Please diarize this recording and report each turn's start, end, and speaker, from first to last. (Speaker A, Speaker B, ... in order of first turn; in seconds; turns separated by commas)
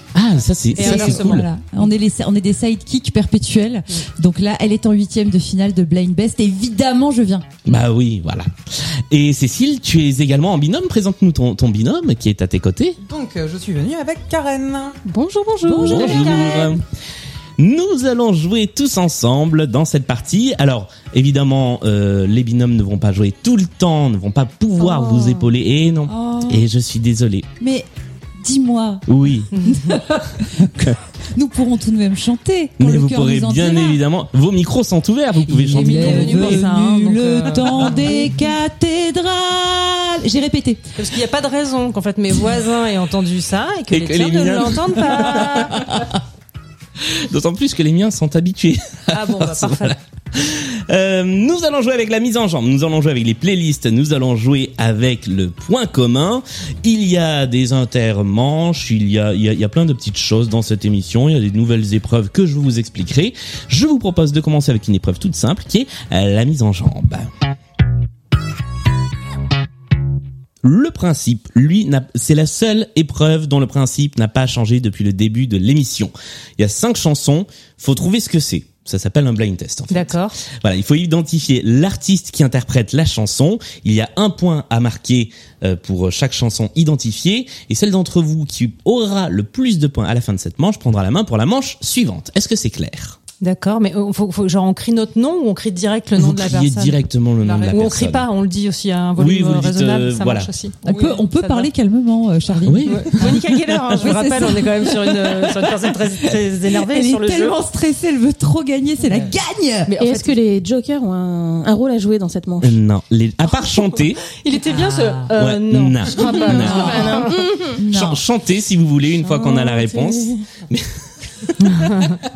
Speaker A: 0.1-1.5, Speaker B: 0.8-1.4, Speaker C: 0.8-7.4, Speaker A: 7.6-8.5, Speaker A: 9.1-13.0, Speaker D: 13.0-15.0, Speaker E: 15.1-15.9, Speaker C: 15.7-16.3, Speaker B: 15.7-16.7, Speaker A: 15.8-16.8, Speaker A: 17.6-27.5, Speaker B: 24.8-25.4, Speaker C: 26.1-26.6, Speaker C: 27.6-29.0, Speaker A: 29.1-29.5, Speaker B: 29.6-29.9, Speaker C: 29.6-34.0, Speaker A: 32.8-36.6, Speaker C: 35.5-40.8, Speaker B: 35.7-38.3, Speaker B: 41.0-45.9, Speaker A: 43.9-46.1, Speaker A: 47.0-67.3, Speaker B: 49.1-50.0, Speaker A: 70.6-93.2, Speaker B: 79.9-80.4, Speaker B: 93.4-97.0, Speaker A: 96.2-98.3, Speaker D: 97.4-98.0, Speaker B: 97.7-101.7, Speaker A: 99.2-100.5, Speaker C: 100.8-110.0, Speaker D: 100.8-101.2, Speaker A: 102.6-104.0, Speaker B: 102.9-107.6, Speaker B: 109.9-110.3, Speaker E: 110.0-112.8, Speaker A: 112.6-114.2, Speaker B: 113.5-117.4, Speaker C: 114.5-115.3, Speaker A: 115.3-117.0, Speaker C: 116.5-118.2, Speaker E: 116.8-117.8, Speaker A: 117.8-121.5, Speaker B: 119.3-119.9, Speaker B: 121.6-122.2